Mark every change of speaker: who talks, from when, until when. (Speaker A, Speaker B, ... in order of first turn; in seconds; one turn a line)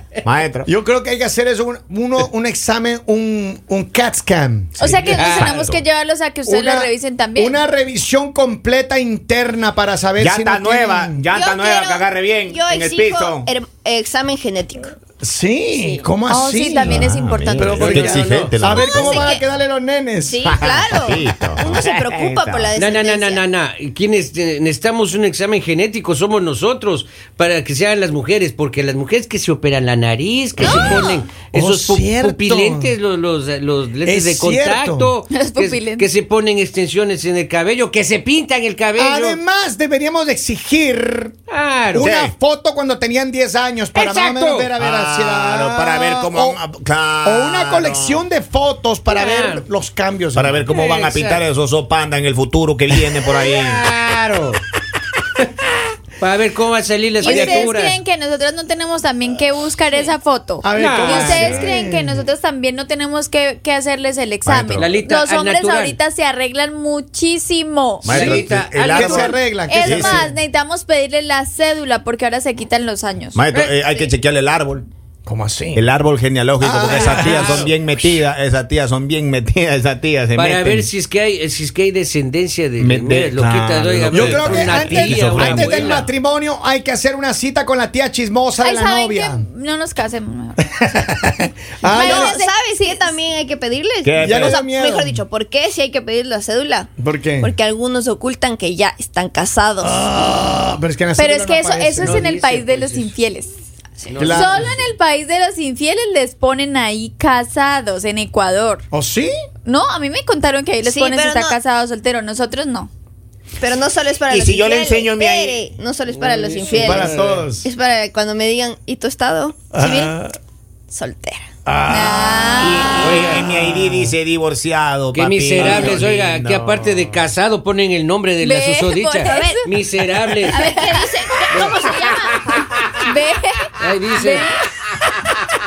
Speaker A: 0.2-0.7
Speaker B: 0.7-5.0
Speaker C: 4.8-7.6
Speaker D: 4.9-5.7
Speaker A: 5.3-5.8
Speaker B: 6.5-11.2
Speaker A: 10.2-13.5
Speaker E: 11.3-14.9
Speaker B: 15.2-20.4
Speaker E: 15.7-16.0
Speaker C: 16.3-18.0
Speaker A: 16.8-19.4
Speaker D: 17.8-18.5
Speaker E: 18.7-19.4
Speaker E: 20.2-23.4
Speaker A: 20.4-22.7
Speaker D: 22.7-39.4
Speaker A: 30.6-31.1
Speaker B: 30.6-33.0
Speaker E: 30.6-31.1
Speaker B: 34.0-35.1
Speaker C: 35.3-36.1
Speaker B: 39.0-41.3
Speaker D: 41.5-42.1
Speaker B: 41.9-46.6
Speaker A: 42.0-42.3
Speaker D: 43.9-44.7
Speaker A: 44.8-48.2
Speaker B: 47.2-50.7
Speaker D: 49.1-49.6
Speaker A: 50.3-53.9
Speaker D: 50.7-51.4
Speaker D: 53.3-54.6
Speaker D: 56.2-58.0
Speaker C: 57.2-68.4
Speaker B: 57.2-57.7
Speaker B: 60.6-62.2
Speaker D: 60.8-61.5
Speaker A: 64.4-64.9
Speaker D: 64.8-66.0
Speaker A: 68.0-70.2
Speaker D: 68.0-69.3
Speaker B: 68.8-70.4
Speaker C: 69.7-73.4
Speaker A: 73.3-74.9
Speaker B: 75.2-75.8
Speaker A: 75.7-80.9
Speaker B: 76.6-77.7
Speaker D: 76.8-77.7
Speaker D: 80.3-86.0
Speaker A: 82.8-86.1
Speaker B: 84.1-89.5
Speaker C: 88.6-90.6
Speaker B: 90.8-92.3
Speaker C: 91.8-93.1
Speaker E: 92.0-100.0
Speaker A: 94.0-94.6
Speaker B: 94.2-95.2
Speaker B: 97.0-97.5
Speaker B: 99.8-102.3
Speaker C: 101.2-103.5
Speaker D: 102.0-103.1
Speaker D: 104.0-104.8
Speaker B: 104.2-104.8
Speaker C: 104.3-108.8
Speaker B: 108.9-109.3
Speaker C: 109.6-112.9
Speaker E: 110.8-111.6
Speaker E: 113.6-120.2
Speaker A: 114.3-115.8
Speaker D: 116.1-117.5
Speaker B: 116.7-117.7
Speaker B: 119.7-120.3
Speaker E: 120.9-121.5
Speaker B: 121.7-122.7
Speaker C: 121.9-123.1
Speaker A: 122.6-127.2
Speaker D: 123.0-123.6
Speaker B: 123.4-124.1
Speaker D: 125.1-130.6
Speaker C: 128.4-129.6
Speaker E: 129.2-129.7
Speaker E: 130.4-132.1
Speaker C: 130.5-134.6
Speaker D: 131.5-131.8
Speaker D: 133.8-134.5